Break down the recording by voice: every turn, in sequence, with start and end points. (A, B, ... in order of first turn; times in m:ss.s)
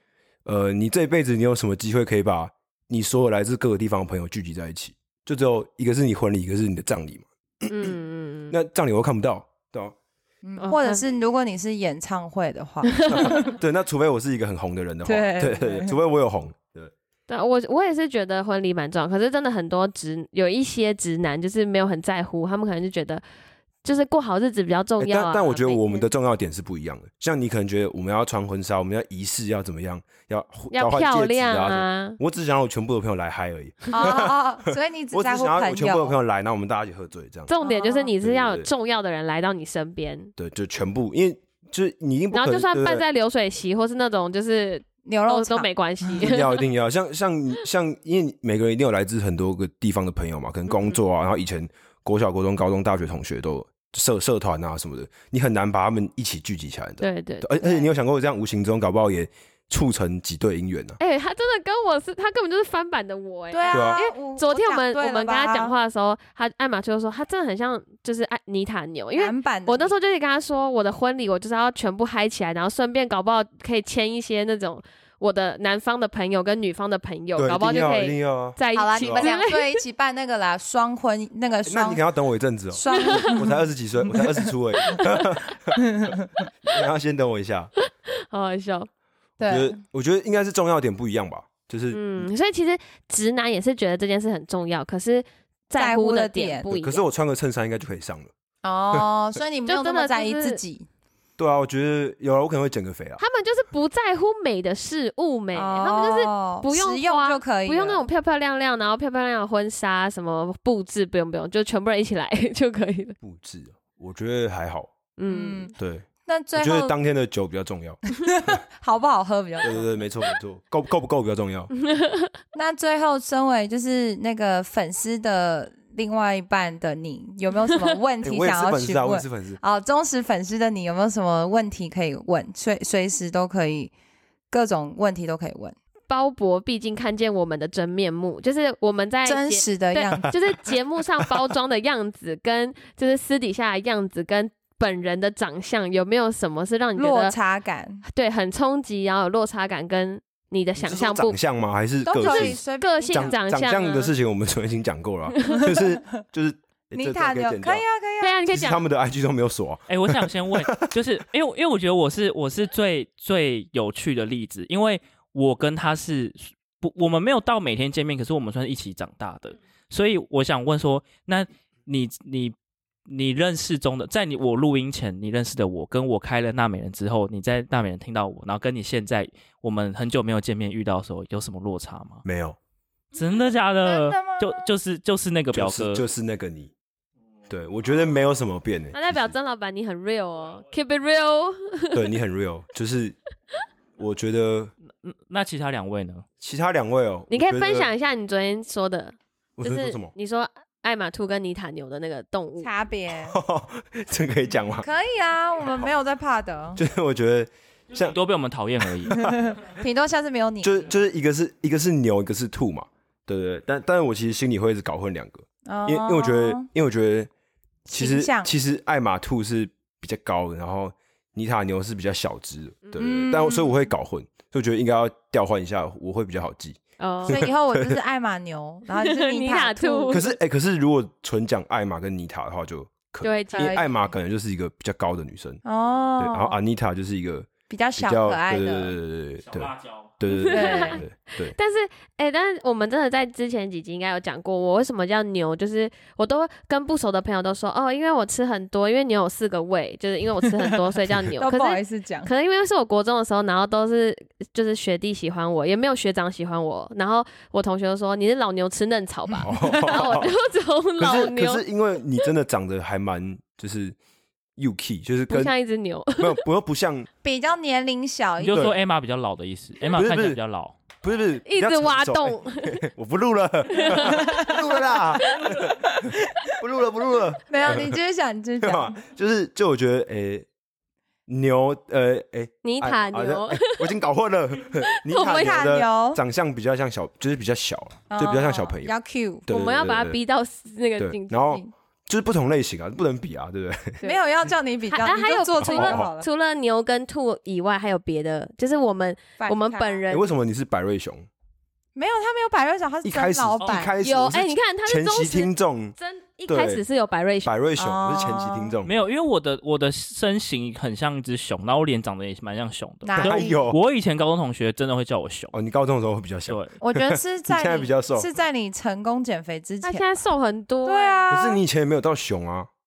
0:00.4-0:08.0 A
0:07.7-0:08.5 B
0:08.5-0:09.9 A
0:10.4-0:13.5 C
0:10.6-0:11.0 B
0:12.9-0:13.4 B
0:13.1-0:16.9 A
0:15.0-0:16.0 C
0:17.3-0:23.2 B
0:23.8-0:26.1 B
0:25.0-0:37.5 A
0:30.7-0:32.2 B
0:33.9-0:36.2 C
0:37.5-0:40.3 B
0:37.6-0:38.1 C
0:38.2-0:38.7 A
0:40.4-0:43.0 A
0:42.3-0:46.6 B
0:45.0-0:46.2 C
0:46.2-1:01.0 A
0:50.7-0:51.0 B
0:57.0-0:57.8 B
1:01.0-1:19.8 B
1:03.5-1:05.7 C
1:03.7-1:04.0 A
1:09.2-1:09.9 C
1:17.4-1:19.3 A
1:18.7-1:22.0 C
1:21.6-1:27.7 A
1:22.7-1:24.3 C
1:22.9-1:23.3 B
1:24.8-1:25.2 B
1:25.8-1:26.2 C
1:27.8-1:28.9 B
1:29.4-1:29.8 C
1:29.4-1:32.2 A
1:31.9-1:37.0 B
1:35.7-1:36.7 C
1:36.7-1:38.3 A
1:38.6-1:40.9 C
1:39.6-1:40.6 B
1:41.4-1:43.2 A
1:43.2-1:53.2 B
1:45.5-1:48.0 C
1:53.2-1:54.9 A
1:55.2-1:55.7 B
1:55.3-1:55.7 C
1:55.8-1:58.6 A
1:56.2-1:56.9 C
1:58.2-1:59.9 C
1:59.6-2:01.7 A
2:01.8-2:02.3 B
2:02.5-2:13.9 C
2:08.2-2:09.6 A
2:14.5-2:15.7 C
2:16.1-2:27.3 B
2:19.2-2:20.4 C
2:27.0-2:28.0 C
2:28.0-2:31.4 B
2:30.8-2:37.8 A
2:32.0-2:33.3 C
2:32.2-2:34.1 B
2:36.9-2:38.4 C
2:38.2-2:38.8 B
2:38.5-2:40.6 A
2:39.9-2:52.5 D
2:53.1-3:02.2 D
3:02.2-3:02.6 A
3:03.1-3:06.0 D
3:03.8-3:04.7 C
3:05.5-3:06.7 A
3:07.5-3:09.3 A
3:08.9-3:12.1 B
3:11.9-3:13.2 A
3:14.0-3:14.7 A
3:15.0-3:16.2 D
3:16.4-3:17.9 A
3:17.3-3:22.7 B
3:19.6-3:20.1 A
3:22.6-3:23.4 C
3:23.1-3:24.9 A
3:24.8-3:26.8 C
3:26.8-3:28.2 A
3:27.9-3:29.3 D
3:28.9-3:29.4 A
3:29.3-3:30.9 C
3:30.6-3:37.3 A
3:35.6-3:36.7 C
3:37.9-3:38.5 C
3:37.9-3:48.0 A
3:43.0-3:43.9 C
3:47.0-3:47.5 B
3:47.2-3:50.2 C
3:49.0-3:50.3 B
3:50.1-3:55.6 A
3:53.2-3:53.8 B
3:53.5-3:53.9 C
3:55.6-3:56.6 C
3:56.2-4:01.5 A
3:57.7-3:59.0 C
3:59.4-4:00.1 D
4:00.3-4:21.6 B
4:00.5-4:01.0 C
4:11.4-4:12.3 C
4:19.4-4:20.3 A
4:21.0-4:24.0 A
4:24.6-4:25.5 A
4:25.3-4:26.4 B
4:26.2-4:27.1 A
4:27.2-4:28.8 C
4:28.4-4:30.8 D
4:29.9-4:30.4 A
4:31.0-4:38.0 A
4:31.4-4:32.8 B
4:33.7-4:34.5 B
4:33.9-4:34.5 C
4:35.2-4:35.5 B
4:36.0-4:36.4 C
4:37.5-4:39.0 C
4:38.6-4:40.4 A
4:41.3-4:48.9 A
4:42.6-4:43.9 B
4:44.9-4:45.6 B
4:45.1-4:46.2 C
4:48.1-4:49.4 C
4:49.4-4:50.2 A
4:49.5-4:51.7 B
4:51.0-4:54.0 A
4:54.0-4:56.3 C
4:54.9-5:00.3 B
4:55.6-4:56.1 A
4:59.4-5:00.0 C
5:00.1-5:01.3 A
5:01.9-5:04.0 C
5:03.0-5:05.9 A
5:03.6-5:03.9 D
5:04.0-5:07.5 B
5:06.5-5:06.8 A
5:07.4-5:08.9 A
5:07.8-5:08.7 C
5:08.8-5:15.5 D
5:13.0-5:13.6 C
5:13.2-5:13.8 A
5:15.5-5:18.3 A
5:16.5-5:16.7 D
5:16.8-5:20.0 C
5:19.8-5:21.3 B
5:20.8-5:21.6 C
5:21.3-5:22.7 A